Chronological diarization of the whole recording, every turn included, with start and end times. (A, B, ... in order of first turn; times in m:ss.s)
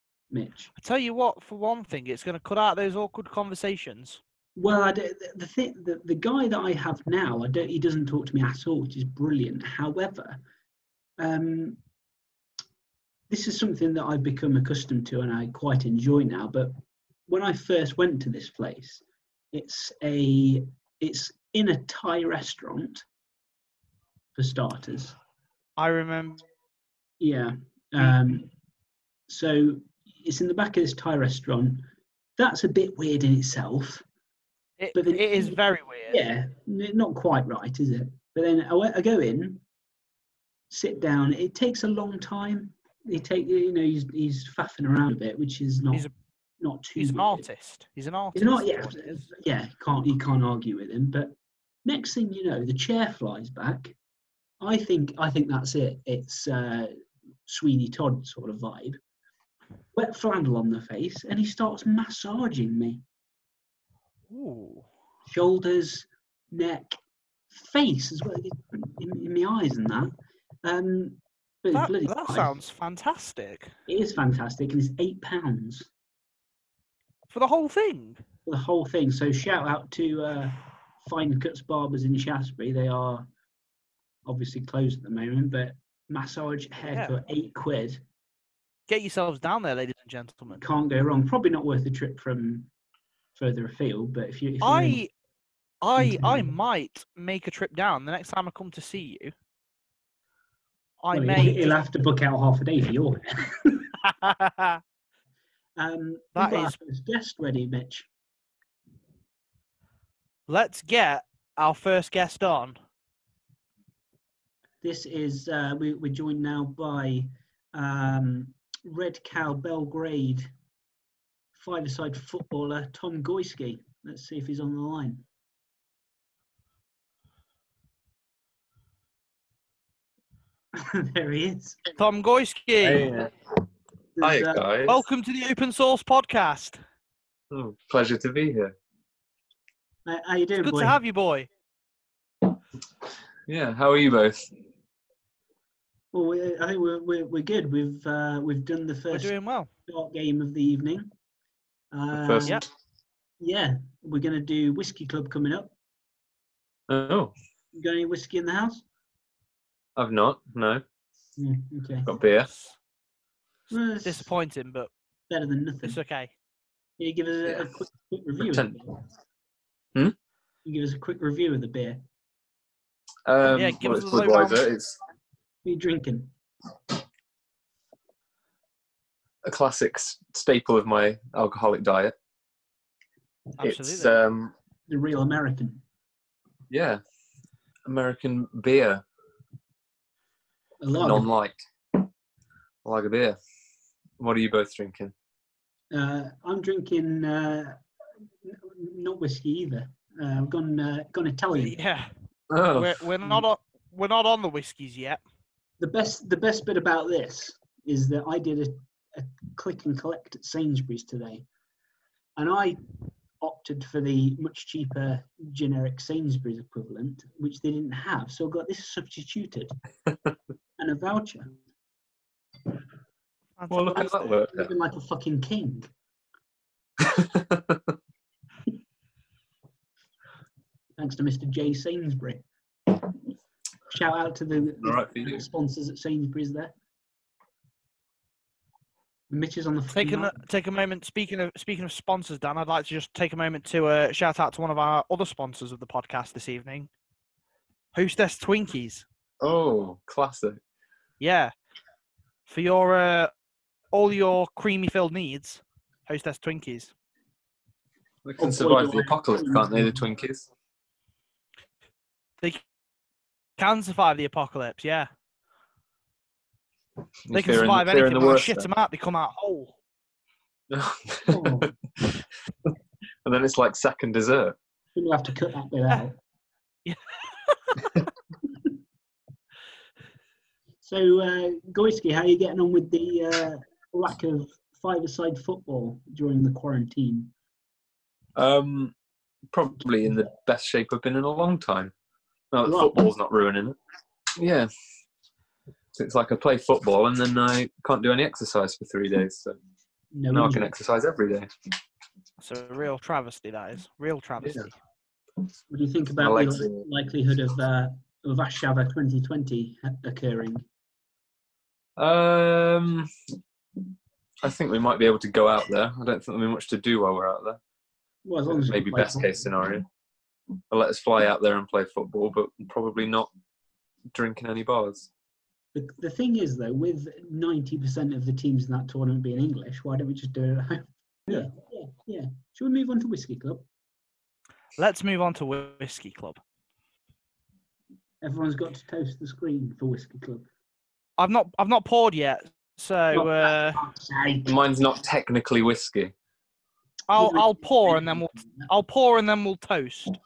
0:00.3-0:00.7 A
0:00.8-0:04.2 B
0:04.6-0:10.4 A
0:11.2-0:11.8 A
0:13.3-0:16.7 A
0:17.3-0:23.0 A
0:24.4-0:25.2 A
0:25.8-0:26.4 B
0:27.2-0:28.5 A
0:29.3-0:31.8 A
0:32.4-0:34.0 A
0:34.8-0:36.2 B
0:34.9-0:35.6 A
0:36.1-0:39.6 A
0:40.7-0:46.1 A
0:46.6-0:47.5 A
0:47.0-0:49.2 B
0:48.3-0:51.3 A
0:51.8-0:53.9 A
0:54.6-0:56.9 A
0:57.4-0:59.0 A
0:59.9-1:03.0 A
1:04.3-1:04.8 B
1:05.3-1:07.0 A
1:07.5-1:12.6 A
1:11.7-1:13.7 B
1:13.9-1:15.9 A
1:17.3-1:18.2 B
1:18.4-1:23.3 A
1:24.2-1:28.0 A
1:26.9-1:27.2 B
1:28.9-1:30.6 B
1:30.6-1:32.7 A
1:33.3-1:35.0 A
1:34.6-1:35.1 B
1:35.8-1:39.3 B
1:36.0-1:36.5 A
1:41.0-1:41.8 B
1:41.1-1:43.9 A
1:44.0-1:44.8 B
1:45.8-1:48.1 A
1:46.4-1:46.8 B
1:50.5-1:52.8 B
1:54.8-2:00.5 A
2:01.5-2:05.2 A
2:10.7-2:11.8 A
2:12.0-2:13.1 B
2:12.8-2:13.3 C
2:14.2-2:14.6 A
2:14.2-2:15.0 C
2:14.9-2:16.8 B
2:17.5-2:18.7 C
2:20.0-2:21.0 A
2:20.6-2:21.5 B
2:23.5-2:24.5 C
2:26.1-2:29.3 A
2:29.1-2:29.7 B
2:29.9-2:31.1 A
2:31.9-2:32.6 A
2:32.1-2:32.5 C
2:33.4-2:35.7 A
2:36.9-2:37.3 C
2:37.7-2:38.8 A
2:40.0-2:40.8 C
2:41.4-2:42.1 A
2:42.0-2:42.5 C
2:43.7-2:44.3 A
2:44.0-2:44.9 B
2:45.3-2:46.0 A
2:45.8-2:46.3 B
2:47.0-2:49.0 A
2:48.4-2:48.7 C
2:50.6-2:52.0 A
2:53.2-2:55.0 C
2:53.5-2:54.6 B
2:55.6-2:56.3 A
2:59.4-3:02.1 C
3:03.6-3:04.1 B
3:03.6-3:04.5 C
3:04.9-3:05.8 A
3:06.7-3:07.0 C
3:07.9-3:09.0 C
3:10.8-3:11.3 A
3:11.0-3:11.6 C
3:12.8-3:13.4 C
3:14.2-3:15.1 C
3:15.9-3:17.8 A
3:18.4-3:21.8 A
3:21.6-3:22.1 B
3:22.5-3:23.0 C
3:22.7-3:25.2 B
3:25.8-3:31.4 A
3:32.4-3:32.8 A
3:33.4-3:39.7 A
3:40.8-3:41.5 A
3:43.6-3:44.4 B
3:43.7-3:44.7 C
3:44.5-3:45.9 A
3:47.0-3:47.8 C
3:51.0-3:52.4 A
3:53.9-3:56.7 A
3:54.8-3:55.4 C
3:59.3-4:00.3 A
3:59.9-4:06.9 B
4:07.9-4:09.0 B
4:09.4-4:10.6 C
4:11.2-4:11.5 B
4:12.5-4:13.3 B
4:13.9-4:16.9 B
4:18.2-4:20.5 C
4:18.4-4:20.0 A
4:23.6-4:25.1 B
4:27.2-4:28.7 C
4:27.3-4:29.7 B
4:30.7-4:31.7 C
4:31.3-4:31.7 A
4:33.2-4:34.6 C
4:34.9-4:36.2 A
4:36.8-4:37.9 B
4:40.8-4:47.3 A
4:48.4-4:48.9 C
4:49.5-4:51.9 C
4:52.5-4:53.8 C
4:52.6-4:53.1 A
4:54.4-4:54.7 C
4:55.9-4:59.6 C
5:00.1-5:00.7 A
5:00.3-5:01.5 C
5:02.4-5:04.7 B
5:05.7-5:10.6 A
5:06.2-5:06.8 C
5:12.0-5:13.1 C
5:14.4-5:17.6 C
5:18.2-5:19.5 A
5:18.6-5:19.8 C
5:20.7-5:23.3 C
5:24.1-5:25.1 C
5:25.7-5:33.6 A
5:34.8-5:36.4 B
5:38.2-5:40.5 A
5:41.2-5:43.8 B
5:43.1-5:44.5 A
5:44.4-5:46.1 C
5:47.1-5:50.2 B
5:47.1-5:48.7 A